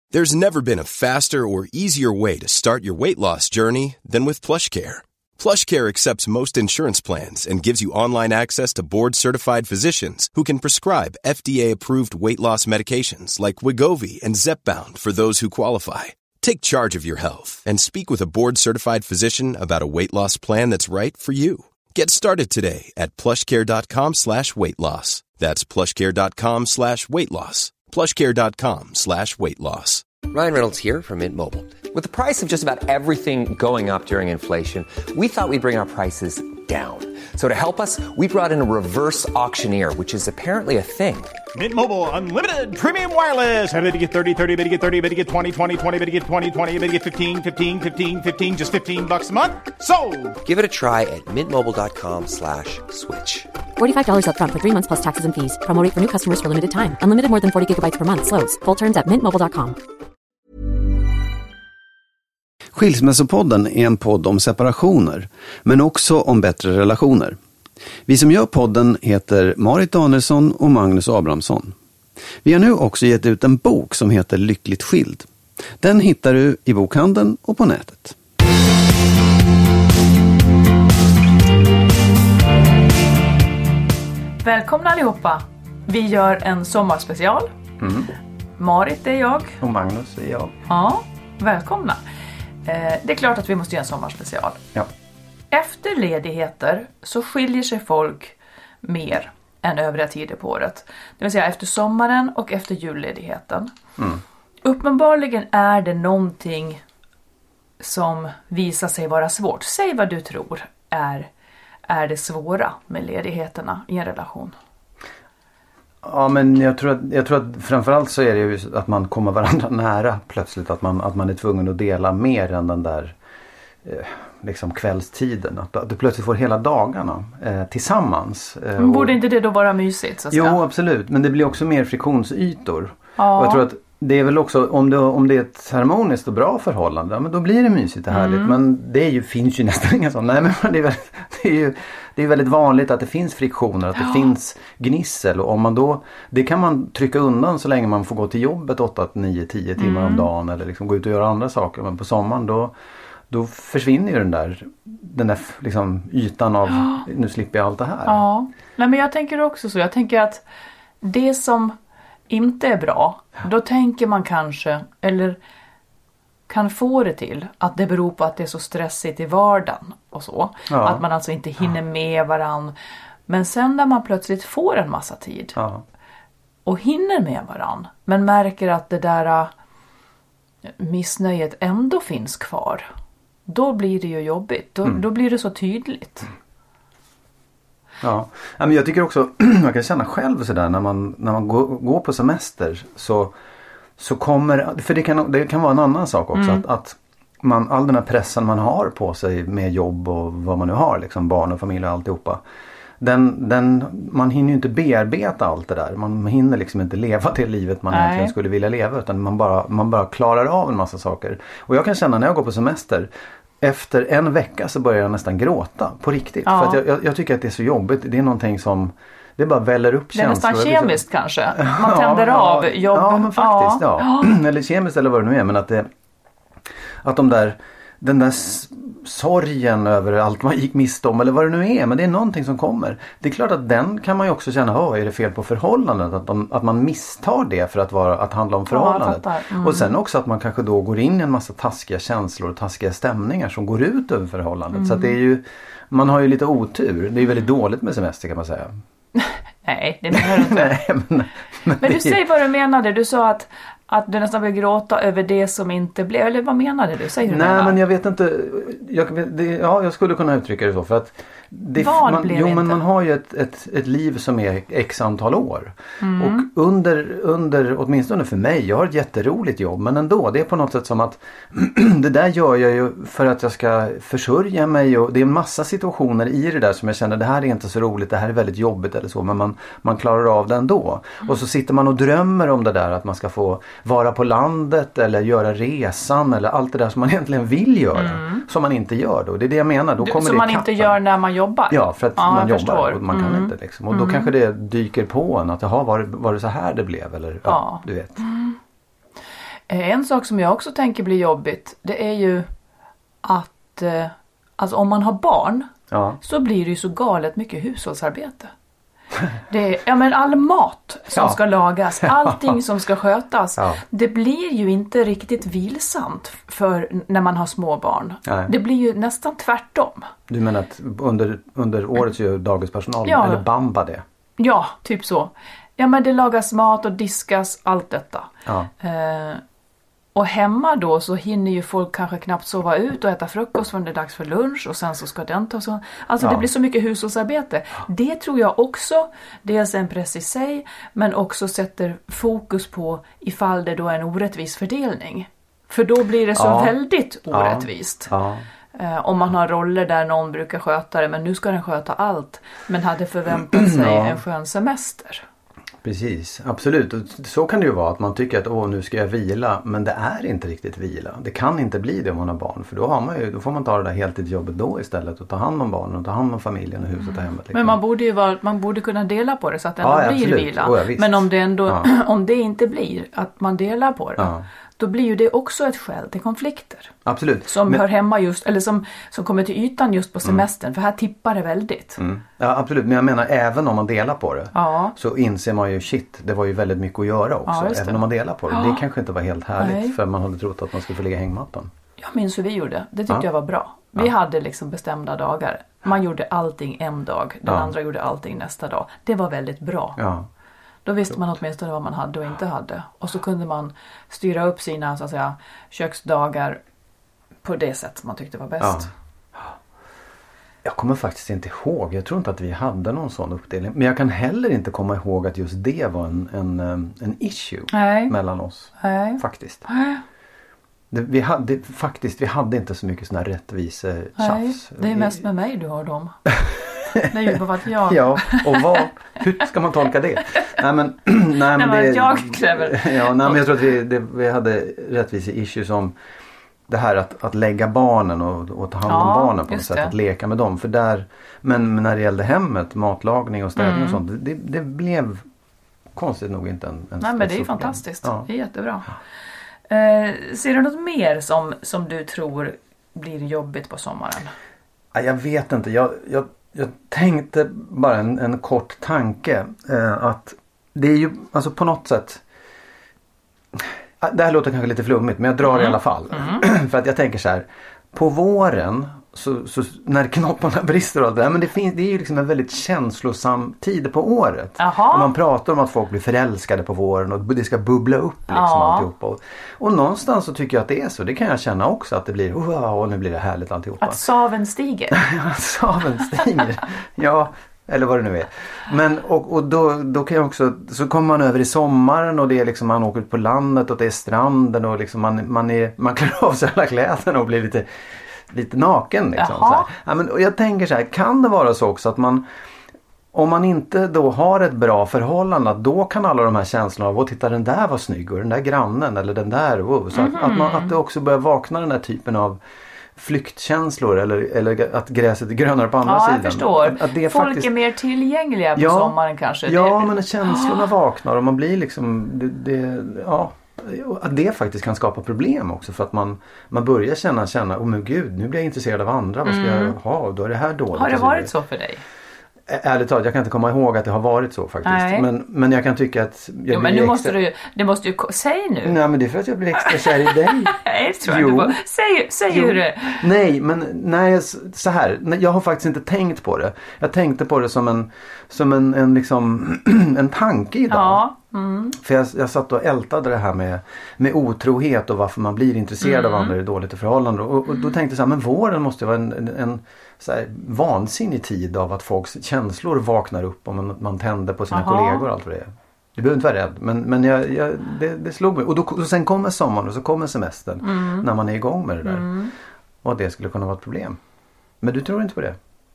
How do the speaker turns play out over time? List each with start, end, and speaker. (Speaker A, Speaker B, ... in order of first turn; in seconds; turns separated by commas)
Speaker A: 0.1-30.1, Speaker B: 30.3-41.4, Speaker C: 41.5-50.4, Speaker B: 50.4-53.5, Speaker D: 53.8-59.8, Speaker E: 62.7-67.4, Speaker E: 68.1-71.8, Speaker E: 72.4-75.3, Speaker E: 75.8-78.2, Speaker F: 84.4-87.5, Speaker E: 87.8-88.1, Speaker F: 88.6-89.6, Speaker E: 89.6-90.5, Speaker F: 90.7-92.0, Speaker F: 92.6-94.6, Speaker F: 95.5-103.7, Speaker F: 104.6-106.8, Speaker F: 107.8-111.3, Speaker F: 111.9-114.5, Speaker E: 116.0-123.2, Speaker E: 123.8-129.2, Speaker F: 128.8-130.6, Speaker E: 130.3-152.7, Speaker F: 133.2-133.6, Speaker F: 138.1-138.6, Speaker F: 149.8-150.3, Speaker E: 153.3-158.2, Speaker F: 156.7-157.0, Speaker F: 158.1-160.4, Speaker F: 161.0-161.8, Speaker F: 162.3-165.4, Speaker F: 166.5-172.7, Speaker E: 170.7-171.0, Speaker F: 173.3-175.6, Speaker E: 175.5-175.8, Speaker F: 176.6-179.5, Speaker F: 180.7-182.9, Speaker F: 183.5-186.3, Speaker E: 188.0-193.3, Speaker E: 194.0-202.4, Speaker F: 196.3-196.6, Speaker E: 203.0-213.1, Speaker F: 207.9-208.3, Speaker E: 213.6-221.0, Speaker F: 216.4-216.8, Speaker F: 220.1-224.4, Speaker E: 221.5-225.9, Speaker E: 227.0-248.7, Speaker F: 238.7-239.9, Speaker F: 244.7-245.1, Speaker F: 249.1-250.8, Speaker E: 250.1-252.2, Speaker F: 251.8-257.8, Speaker E: 257.2-291.0, Speaker F: 261.8-262.8, Speaker F: 266.0-266.4, Speaker F: 287.9-288.4, Speaker F: 290.0-294.3, Speaker E: 291.7-298.2, Speaker F: 297.4-298.6, Speaker F: 299.7-302.5, Speaker F: 303.2-305.7, Speaker E: 305.9-306.2, Speaker F: 306.2-308.5, Speaker F: 309.5-320.1, Speaker E: 311.1-311.4, Speaker E: 311.9-312.6, Speaker E: 313.6-313.8, Speaker E: 318.2-318.5, Speaker E: 320.3-324.0, Speaker F: 323.1-323.4, Speaker F: 324.4-329.4, Speaker E: 328.4-328.7, Speaker F: 330.1-348.1, Speaker E: 336.2-336.4, Speaker E: 346.3-346.7, Speaker E: 347.3-348.4, Speaker F: 348.7-355.2, Speaker E: 353.4-354.2, Speaker E: 355.8-367.8, Speaker F: 367.5-376.9, Speaker E: 369.8-371.8, Speaker E: 374.2-374.4, Speaker E: 377.0-377.8, Speaker F: 377.5-382.0, Speaker E: 382.0-391.7, Speaker F: 384.5-384.9, Speaker F: 387.5-388.8, Speaker F: 389.6-389.9, Speaker F: 392.0-400.0, Speaker E: 397.4-397.7, Speaker E: 400.0-400.3, Speaker F: 400.8-406.6, Speaker F: 407.4-408.9, Speaker E: 408.6-409.5, Speaker E: 410.6-419.6, Speaker F: 417.7-418.1, Speaker F: 418.8-420.0, Speaker E: 420.9-425.2, Speaker F: 424.2-426.1, Speaker E: 426.4-435.9, Speaker F: 427.1-428.9, Speaker F: 431.5-433.6, Speaker E: 436.7-445.2, Speaker F: 438.9-439.9, Speaker F: 443.6-444.0, Speaker E: 445.9-448.3, Speaker F: 447.0-448.9, Speaker F: 449.7-454.3, Speaker E: 454.9-462.2, Speaker E: 463.5-484.0, Speaker F: 465.4-466.4, Speaker F: 474.6-475.1, Speaker F: 478.3-478.9, Speaker F: 483.8-485.0, Speaker E: 484.9-497.7, Speaker E: 498.2-502.2, Speaker F: 499.1-499.7, Speaker E: 503.1-512.4, Speaker F: 509.9-510.7, Speaker E: 513.0-517.5, Speaker F: 515.8-520.6, Speaker E: 518.5-531.3, Speaker F: 529.2-529.7, Speaker F: 530.7-531.8, Speaker E: 532.5-537.1, Speaker F: 534.6-535.0, Speaker F: 536.5-538.8, Speaker E: 538.6-541.6, Speaker F: 539.6-543.0, Speaker E: 542.3-551.0, Speaker F: 550.7-551.8, Speaker E: 551.8-572.1, Speaker F: 555.8-556.3, Speaker F: 564.5-565.0, Speaker F: 570.6-571.1, Speaker F: 571.8-572.3, Speaker E: 572.8-574.0, Speaker E: 574.6-575.4